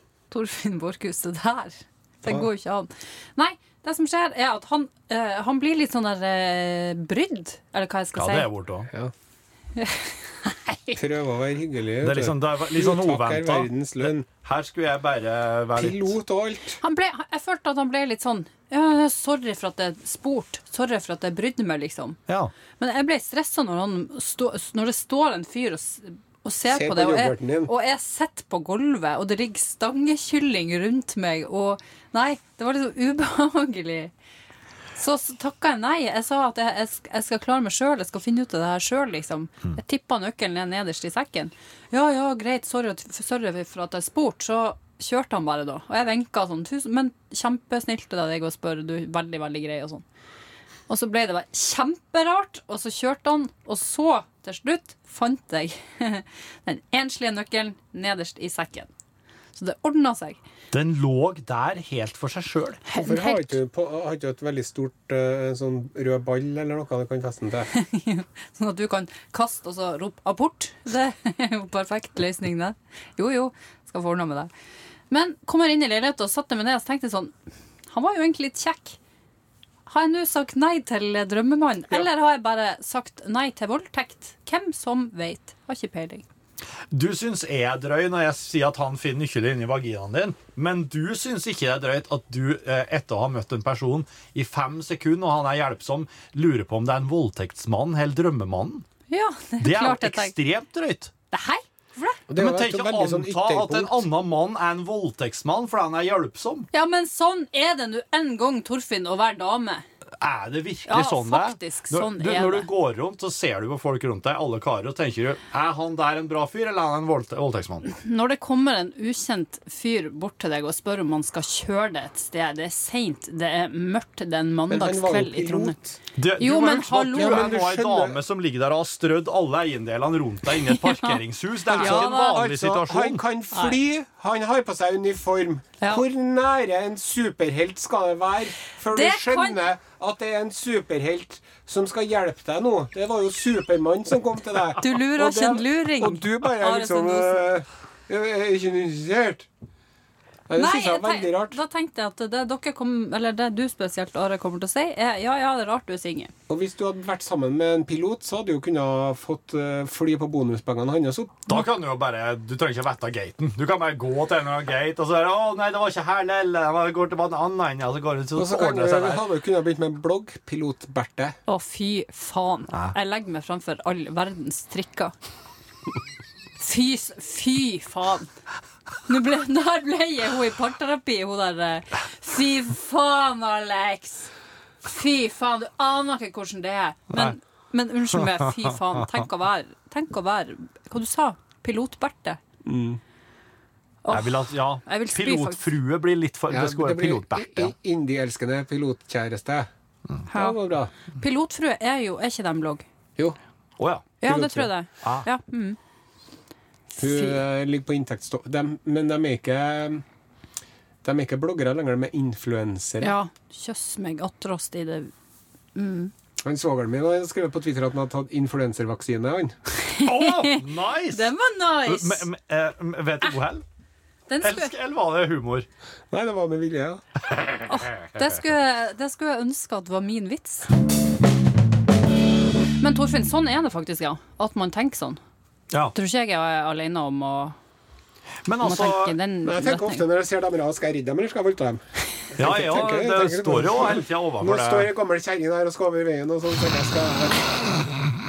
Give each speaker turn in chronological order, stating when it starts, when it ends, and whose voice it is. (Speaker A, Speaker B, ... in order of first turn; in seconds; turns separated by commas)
Speaker A: 0.3-8.5, Speaker B: 8.2-8.9, Speaker A: 9.8-11.0, Speaker C: 10.9-14.3, Speaker B: 12.0-16.1, Speaker C: 15.8-16.8, Speaker A: 16.8-22.2, Speaker A: 22.8-34.1, Speaker C: 26.7-27.7, Speaker A: 35.0-50.0, Speaker A: 50.9-58.9, Speaker A: 59.5-60.4, Speaker B: 60.7-62.8, Speaker A: 62.9-63.6, Speaker C: 62.9-67.7, Speaker A: 67.7-74.5, Speaker A: 75.1-77.3, Speaker A: 77.9-79.0, Speaker A: 79.9-86.2, Speaker B: 86.9-98.9, Speaker A: 99.1-100.3, Speaker B: 99.6-101.1, Speaker A: 101.3-102.2, Speaker C: 102.3-104.0, Speaker B: 102.4-106.7, Speaker A: 106.7-109.8, Speaker B: 110.2-117.9, Speaker A: 110.9-112.7, Speaker A: 117.9-125.8, Speaker C: 124.7-126.0, Speaker B: 126.2-133.2, Speaker A: 126.4-127.5, Speaker C: 127.1-128.2, Speaker A: 130.7-131.2, Speaker A: 131.7-132.4, Speaker C: 131.7-149.5, Speaker A: 133.5-133.8, Speaker A: 138.9-139.6, Speaker A: 144.8-147.4, Speaker C: 150.5-151.6, Speaker A: 150.6-156.3, Speaker C: 156.5-161.6, Speaker B: 161.5-169.3, Speaker C: 168.4-171.4, Speaker A: 171.5-175.1, Speaker A: 176.6-178.3, Speaker A: 179.1-184.3, Speaker A: 184.8-192.4, Speaker B: 188.2-188.7, Speaker C: 192.7-193.0, Speaker A: 194.0-195.7, Speaker B: 194.1-197.7, Speaker C: 196.5-199.7, Speaker A: 200.3-200.6, Speaker C: 200.3-200.9, Speaker A: 201.2-202.8, Speaker B: 203.8-204.1, Speaker A: 204.2-205.8, Speaker C: 204.2-204.7, Speaker A: 207.0-207.4, Speaker C: 207.0-210.0, Speaker C: 211.0-213.2, Speaker A: 213.0-215.1, Speaker A: 215.8-216.1, Speaker C: 216.4-219.6, Speaker A: 219.8-222.3, Speaker B: 220.0-221.3, Speaker B: 221.8-223.6, Speaker A: 224.3-224.7, Speaker B: 224.4-225.7, Speaker C: 226.1-227.0, Speaker A: 227.7-230.7, Speaker A: 232.8-235.2, Speaker A: 235.9-237.6, Speaker B: 238.4-239.2, Speaker A: 238.6-240.1, Speaker C: 239.4-247.8, Speaker B: 242.4-244.9